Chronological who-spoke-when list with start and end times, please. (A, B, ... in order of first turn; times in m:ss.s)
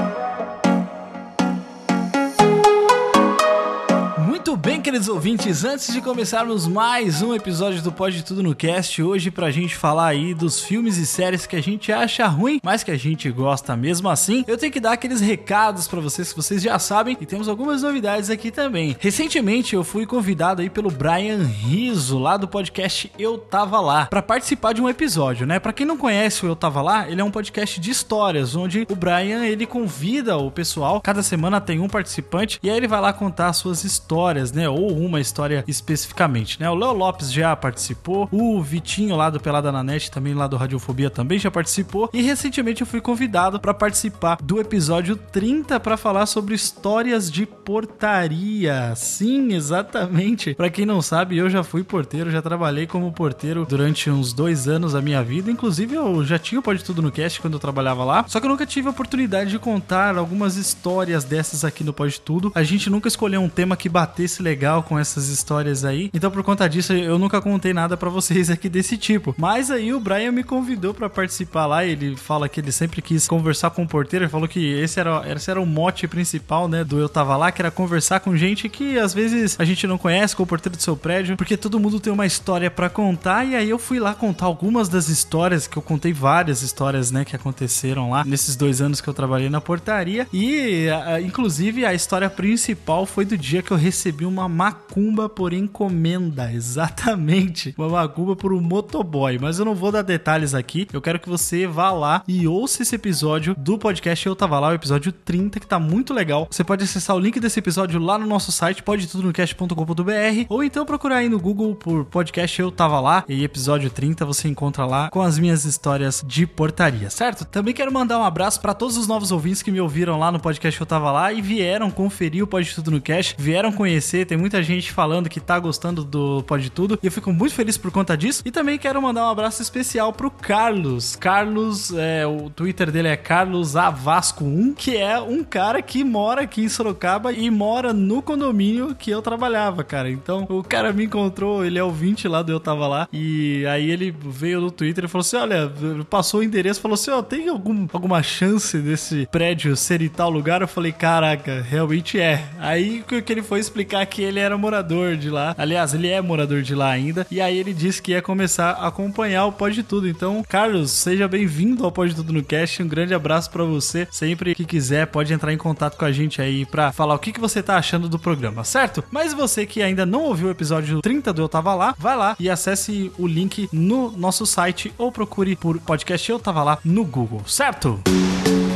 0:04.2-2:58.0 A